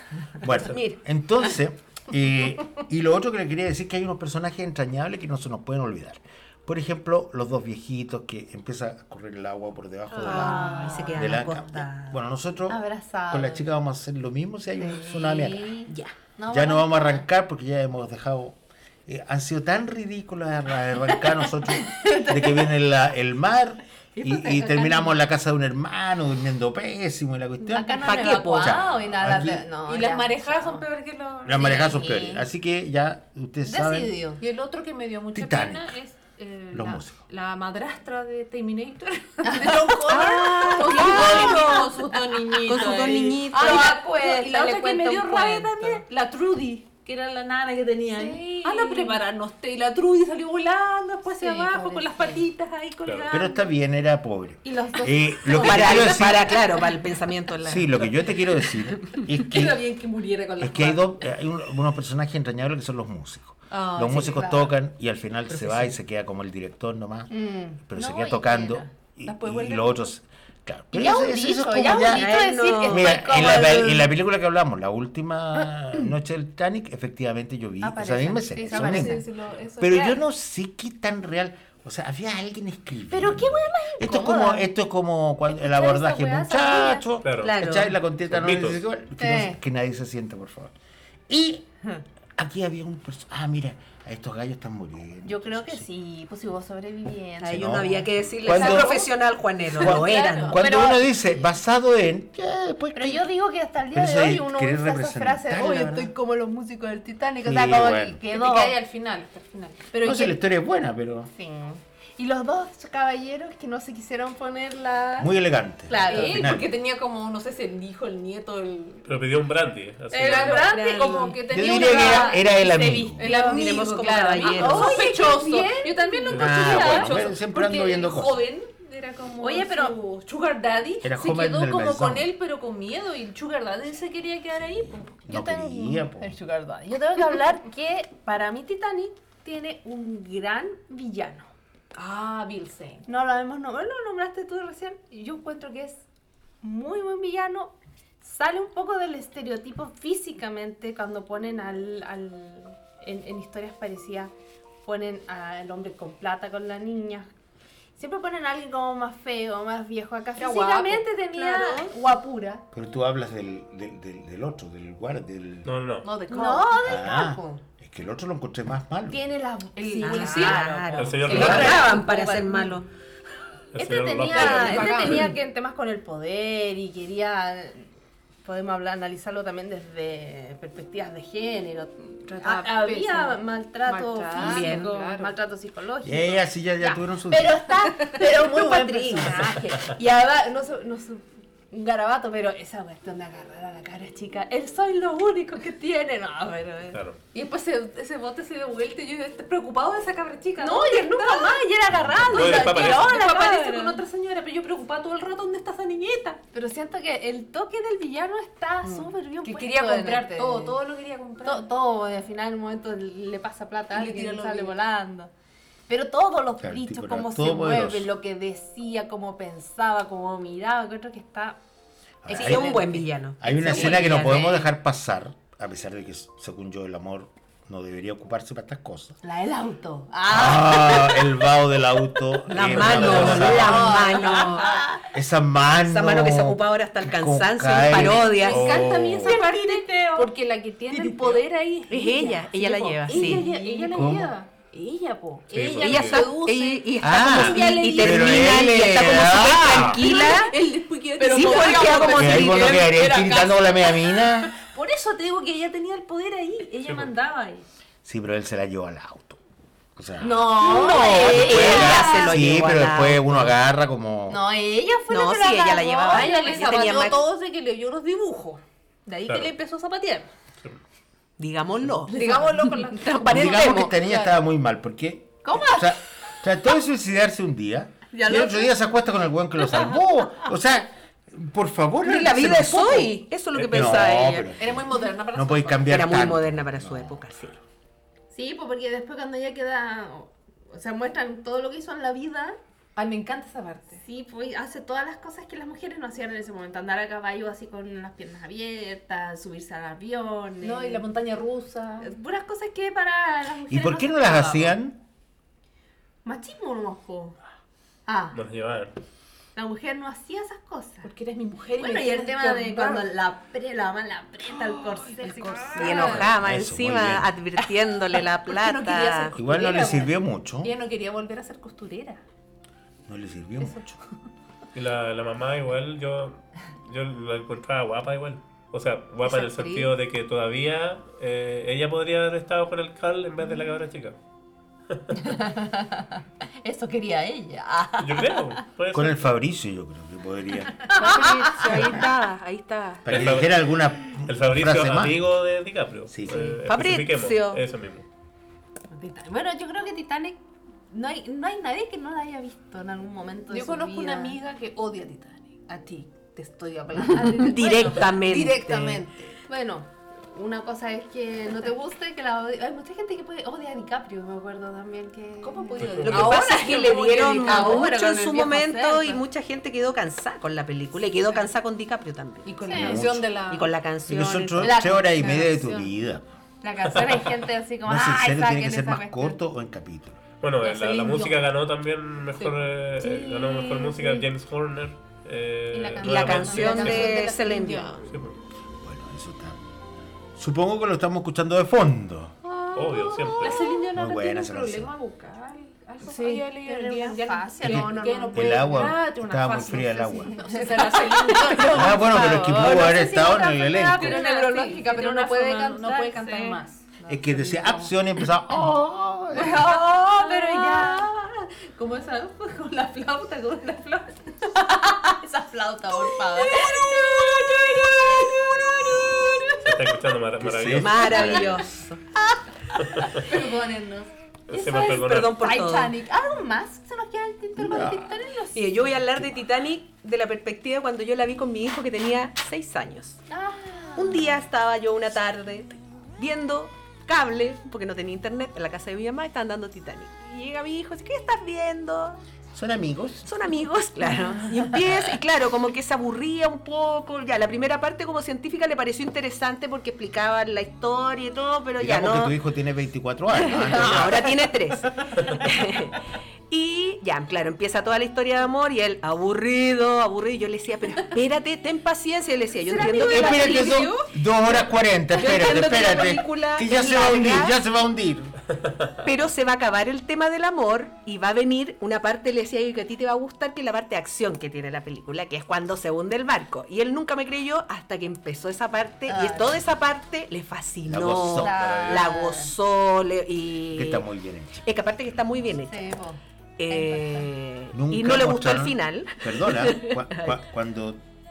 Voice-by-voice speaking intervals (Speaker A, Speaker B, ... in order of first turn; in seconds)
Speaker A: 0.3-15.7, 16.5-29.7, 31.4-34.1, 35.3-36.0, 36.7-37.2, 53.3-56.6, 57.6-60.0, 60.6-67.3, 67.9-79.2, 79.8-90.7, 91.3-91.7, 92.3-95.8, 97.5-97.9, 98.4-99.0, 99.8-103.3, 103.9-106.1, 107.4-108.2, 110.0-111.3, 115.2-116.7, 121.5-123.2, 126.4-128.4, 131.0-132.3, 134.5-136.3, 162.7-165.7, 166.8-169.2, 171.3-171.8, 186.0-187.7, 201.9-202.5, 216.6-218.1, 222.2-222.7, 223.4-229.2, 230.3-234.1, 235.1-239.4, 243.9-244.3, 247.0-250.0, 252.1-254.5, 258.0-259.4, 259.9-264.4, 273.2-287.3, 303.7-305.0, 316.1-317.3, 319.3-320.7, 323.1-323.9, 338.9-340.8, 343.0-345.2, 346.1-346.6, 372.7-373.3, 374.1-376.2, 377.8-380.2, 388.8-389.6, 390.3-392.4, 393.9-394.9, 397.6-400.3, 401.7-404.2, 407.1-409.8, 420.4-421.6, 427.6-428.1, 442.5-443.3, 451.8-454.4, 463.0-468.4, 480.9-481.6, 483.7-485.4, 487.7-491.0
Speaker B: 0.5-1.0, 10.2-12.2, 15.9-16.1, 28.0-28.8, 40.1-41.9, 42.6-44.0, 55.6-58.2, 65.5-66.0, 72.0-73.8, 87.4-88.0, 97.4-100.6, 120.2-121.5, 123.2-125.0, 161.3-161.9, 170.0-172.9, 174.3-175.2, 184.3-184.9, 222.3-224.7, 230.3-230.6, 232.5-235.0, 235.8-240.2, 240.9-243.6, 245.6-250.5, 251.2-253.0, 260.6-263.5, 265.1-267.2, 271.4-272.4, 272.9-273.9, 282.0-284.5, 285.9-287.6, 315.8-319.3, 340.9-343.1, 346.6-347.6, 357.2-359.0, 366.0-375.0, 386.0-388.0, 401.6-401.9, 420.7-422.0, 424.8-425.9, 428.5-433.2, 433.9-442.2, 443.2-452.3, 453.3-463.9, 465.1-467.5, 469.0-484.1, 484.6-485.9, 486.6-490.4
Speaker C: 10.2-11.3, 12.7-13.7, 14.8-17.2, 21.8-22.7, 24.1-25.1, 27.6-30.9, 31.6-32.5, 33.6-34.4, 39.4-40.0, 40.8-46.0, 48.1-49.2, 51.3-52.5, 54.6-56.3, 59.6-60.8, 63.7-64.7, 67.3-68.9, 70.9-74.1, 77.8-79.3, 83.1-84.7, 85.5-87.0, 89.2-89.6, 95.2-98.0, 100.6-101.1, 102.9-108.8, 111.3-115.3, 115.9-116.5, 121.6-127.2, 129.4-130.0, 135.3-141.5, 143.1-146.0, 146.6-154.3, 154.8-157.3, 158.0-162.6, 166.3-167.6, 169.1-172.8, 173.8-177.9, 178.4-197.0, 200.6-204.0, 206.5-210.8, 211.4-215.3, 215.9-221.6, 222.3-224.3, 229.2-231.4, 232.8-234.9, 242.9-244.0, 250.1-250.4, 251.2-252.4, 260.2-262.4, 264.3-267.2, 272.1-273.2, 275.4-276.0, 278.1-278.7, 288.3-292.6, 294.0-301.0, 302.0-304.7, 306.2-307.4, 308.1-308.4, 309.5-311.1, 311.8-316.3, 329.2-329.9, 335.1-338.6, 340.9-342.0, 348.9-354.4, 355.9-369.2, 372.6-373.0, 374.6-375.5, 376.6-379.4, 386.0-387.4, 396.0-398.9, 400.3-407.9, 409.3-413.2, 414.4-419.7, 421.2-421.5, 422.7-428.6, 433.3-434.3, 462.7-463.8, 479.1-479.6, 481.4-482.5, 485.6-487.3
Speaker D: 29.8-31.9, 34.4-53.7, 59.5-61.0, 69.3-70.0, 78.6-80.2, 98.4-99.1, 99.8-100.6, 108.2-110.3, 116.0-119.1, 120.1-135.3, 141.9-143.1, 160.3-161.3, 166.0-167.0, 169.8-172.7, 174.3-175.3, 182.2-185.3, 187.9-189.6, 197.3-206.4, 208.8-211.7, 213.9-214.8, 233.7-234.6, 237.9-248.7, 249.8-257.6, 260.6-262.3, 266.1-270.3, 272.1-274.4, 284.6-286.0, 292.9-294.0, 300.6-302.1, 311.0-313.1, 314.8-316.3, 318.4-322.2, 323.6-323.9, 353.5-358.2, 365.4-367.9, 372.4-373.7, 375.1-375.9, 380.6-381.5, 382.4-384.2, 385.7-388.1, 392.5-402.7, 403.9-407.7, 409.5-414.5, 416.1-418.8, 428.3-428.8, 462.6-464.1
Speaker E: 53.0-53.3, 87.2-87.5, 88.3-88.8, 119.0-120.7, 126.3-126.8, 165.6-166.1, 170.9-172.0, 173.7-175.3, 196.9-197.2, 202.3-203.1, 232.6-233.7, 245.5-246.3, 256.8-257.1, 269.3-269.5, 283.5-284.1, 308.3-308.9, 324.7-334.2, 334.9-335.3, 338.0-339.3, 343.1-348.1, 365.8-366.2, 380.4-387.1, 388.1-388.4, 392.7-393.7, 419.6-421.1, 422.8-423.2, 424.5-425.4, 468.6-469.0, 481.5-482.1